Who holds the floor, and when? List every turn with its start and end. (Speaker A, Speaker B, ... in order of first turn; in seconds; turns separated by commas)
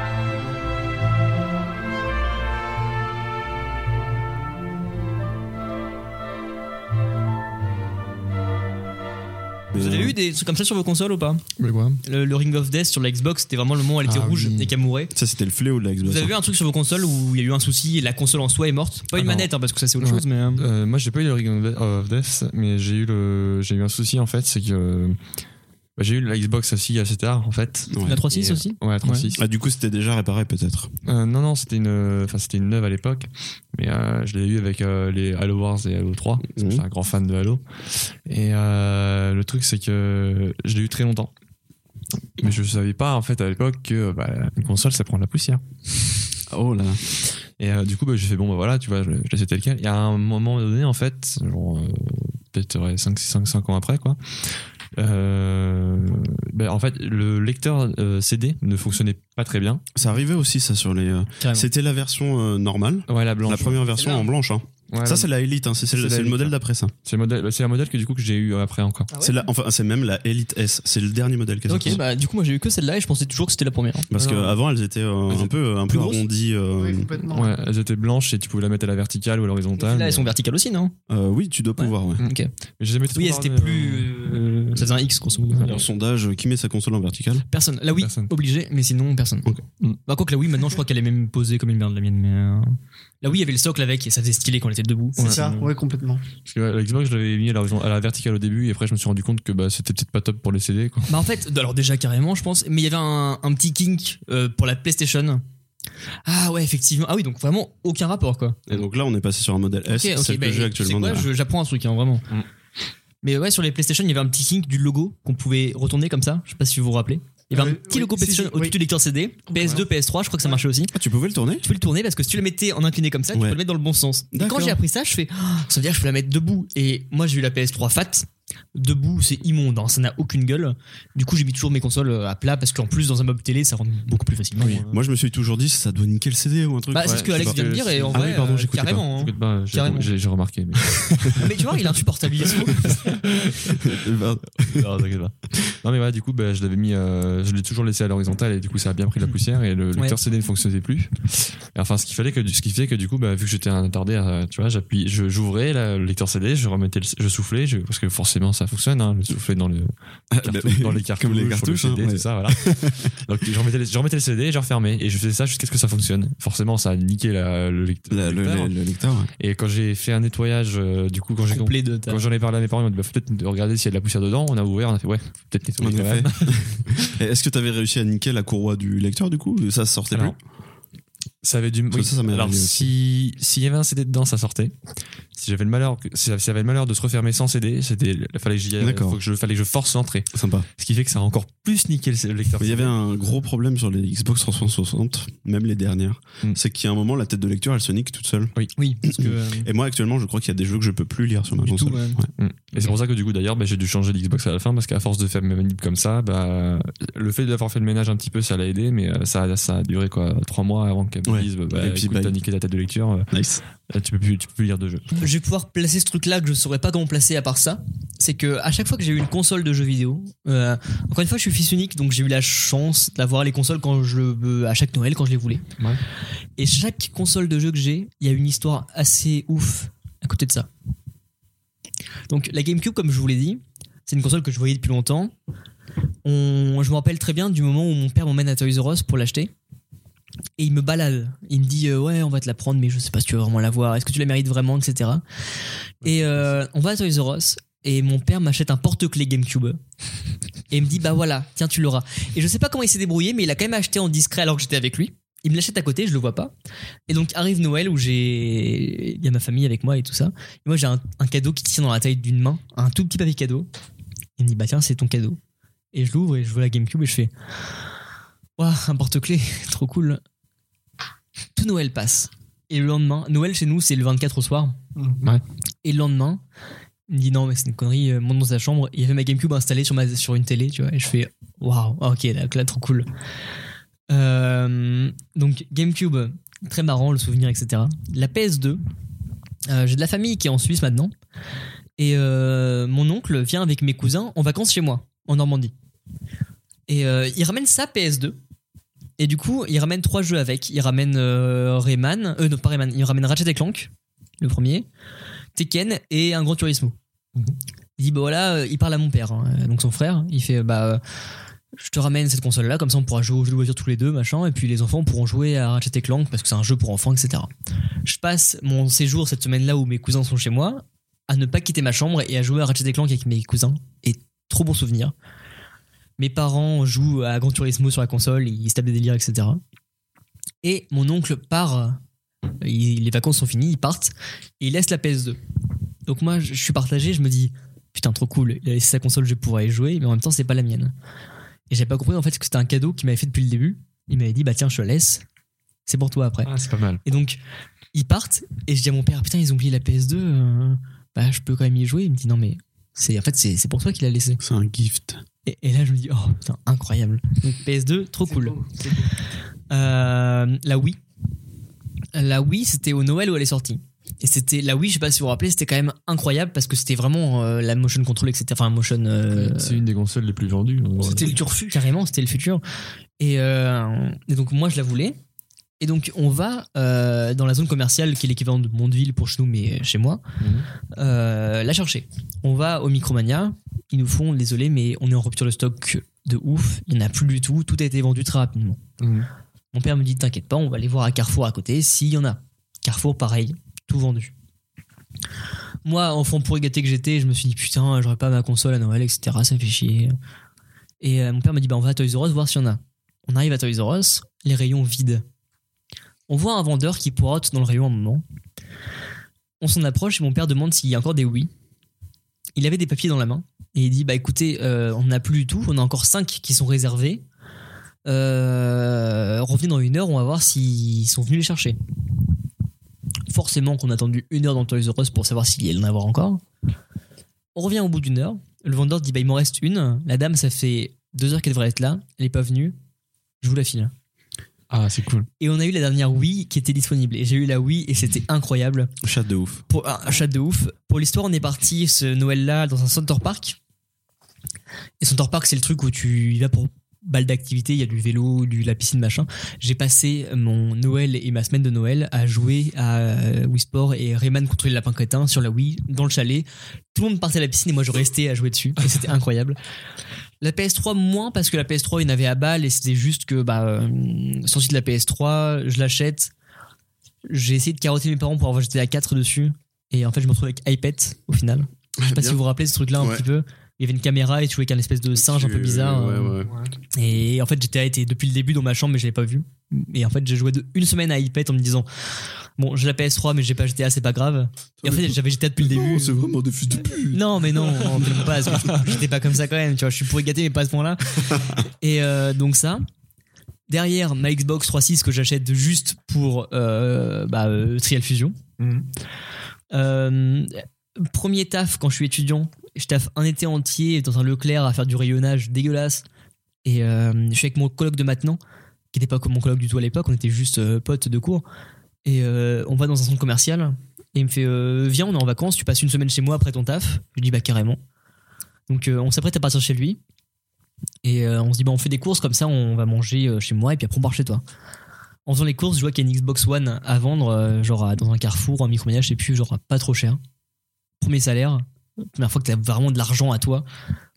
Speaker A: 9.7-10.1, Speaker B: 9.7-11.4, Speaker C: 11.6-12.0, Speaker B: 12.0-15.1, Speaker C: 14.0-14.7, Speaker A: 15.1-16.3, Speaker B: 16.0-20.6, Speaker C: 19.1-25.2, Speaker C: 26.0-29.4, Speaker A: 27.9-28.2, Speaker B: 28.0-29.3, Speaker A: 29.4-30.9, Speaker C: 31.0-41.3, Speaker A: 36.5-36.8, Speaker C: 42.4-45.6, Speaker A: 46.5-47.0, Speaker C: 47.6-59.8, Speaker A: 59.9-66.9, Speaker B: 61.4-61.7, Speaker C: 63.1-63.8, Speaker C: 64.9-65.3, Speaker C: 65.9-69.1, Speaker D: 69.1-69.5, Speaker A: 69.2-72.0, Speaker B: 71.7-74.1, Speaker A: 74.1-77.1, Speaker C: 74.1-74.6, Speaker B: 75.9-76.2, Speaker D: 76.8-77.5, Speaker C: 77.3-80.3, Speaker B: 79.8-80.9, Speaker A: 81.1-82.2, Speaker B: 81.8-82.5, Speaker C: 82.2-84.9, Speaker B: 83.1-85.8, Speaker C: 85.5-85.8, Speaker A: 85.6-87.4, Speaker B: 87.5-89.5, Speaker C: 88.0-88.3, Speaker B: 90.0-95.4, Speaker C: 95.2-95.7, Speaker D: 95.2-96.2, Speaker C: 96.5-101.1, Speaker B: 101.1-105.4, Speaker B: 106.2-108.6, Speaker A: 108.7-111.3, Speaker B: 109.9-112.2, Speaker B: 113.2-120.9, Speaker D: 117.5-118.8, Speaker D: 119.5-119.8, Speaker A: 120.9-121.7, Speaker B: 121.6-134.8, Speaker A: 123.3-123.6, Speaker A: 124.3-124.8, Speaker C: 134.6-135.0, Speaker A: 134.9-139.0, Speaker B: 136.9-140.1, Speaker C: 137.0-141.5, Speaker B: 141.3-143.0, Speaker C: 142.7-143.9, Speaker A: 143.6-144.9, Speaker C: 144.6-168.7, Speaker A: 160.3-163.1, Speaker A: 168.1-169.3, Speaker C: 169.4-177.1, Speaker B: 171.5-172.2, Speaker A: 175.8-180.3, Speaker C: 181.4-184.7, Speaker A: 181.9-182.9, Speaker C: 185.3-192.9, Speaker A: 188.8-189.2, Speaker A: 190.3-190.7, Speaker A: 192.6-202.3, Speaker B: 198.8-199.7, Speaker B: 201.6-202.2, Speaker C: 202.4-213.3, Speaker A: 211.2-212.3, Speaker A: 213.3-213.6, Speaker C: 213.9-215.1, Speaker B: 215.2-225.6, Speaker B: 226.6-230.7, Speaker B: 232.3-235.3, Speaker B: 236.2-239.5, Speaker B: 240.6-245.2, Speaker C: 246.0-246.6, Speaker B: 246.0-249.8, Speaker B: 250.7-256.5, Speaker B: 257.1-263.7, Speaker B: 264.4-265.4, Speaker B: 265.9-267.3, Speaker B: 268.6-270.2, Speaker B: 271.6-274.8, Speaker B: 275.8-276.4, Speaker B: 277.1-283.1, Speaker B: 284.1-288.8, Speaker B: 289.6-291.1, Speaker B: 292.0-295.7, Speaker B: 296.9-298.4, Speaker B: 299.2-304.9, Speaker B: 305.5-306.9, Speaker B: 308.0-311.0, Speaker B: 311.8-317.5, Speaker B: 318.0-325.1, Speaker B: 326.2-329.6, Speaker B: 330.6-332.0, Speaker B: 332.6-335.4, Speaker B: 336.1-340.9, Speaker B: 341.7-345.2, Speaker B: 345.9-346.5, Speaker C: 346.4-347.0, Speaker B: 347.0-347.4, Speaker B: 347.9-354.4, Speaker A: 354.4-355.2, Speaker B: 355.4-358.6, Speaker D: 358.2-359.1, Speaker B: 359.7-361.0, Speaker B: 362.1-369.8, Speaker C: 369.3-371.4, Speaker D: 371.0-371.9, Speaker B: 371.7-372.6, Speaker B: 373.2-375.2, Speaker B: 375.8-380.2, Speaker C: 380.4-380.6, Speaker B: 380.9-388.8, Speaker C: 389.0-389.3, Speaker B: 389.7-394.3, Speaker B: 395.8-400.1, Speaker B: 401.0-405.2, Speaker B: 406.3-408.2, Speaker B: 409.6-411.5, Speaker B: 412.6-417.2, Speaker B: 418.1-421.8, Speaker B: 423.3-426.4, Speaker B: 427.5-432.7, Speaker B: 433.4-433.9, Speaker C: 434.7-435.3, Speaker B: 435.4-438.9, Speaker A: 439.0-439.6, Speaker B: 439.7-443.6, Speaker B: 445.0-459.6, Speaker B: 460.4-466.3, Speaker B: 467.2-476.4, Speaker A: 472.0-472.4, Speaker A: 472.9-473.2, Speaker A: 475.1-476.5, Speaker B: 476.9-481.9, Speaker B: 482.6-486.2, Speaker A: 484.8-488.3, Speaker B: 487.1-492.8, Speaker B: 493.7-498.4, Speaker C: 498.6-498.9, Speaker B: 499.7-506.0, Speaker B: 506.6-508.4, Speaker B: 508.9-511.4, Speaker B: 512.0-517.8, Speaker B: 518.7-520.0, Speaker B: 521.0-524.4, Speaker B: 525.2-530.2, Speaker B: 531.0-533.6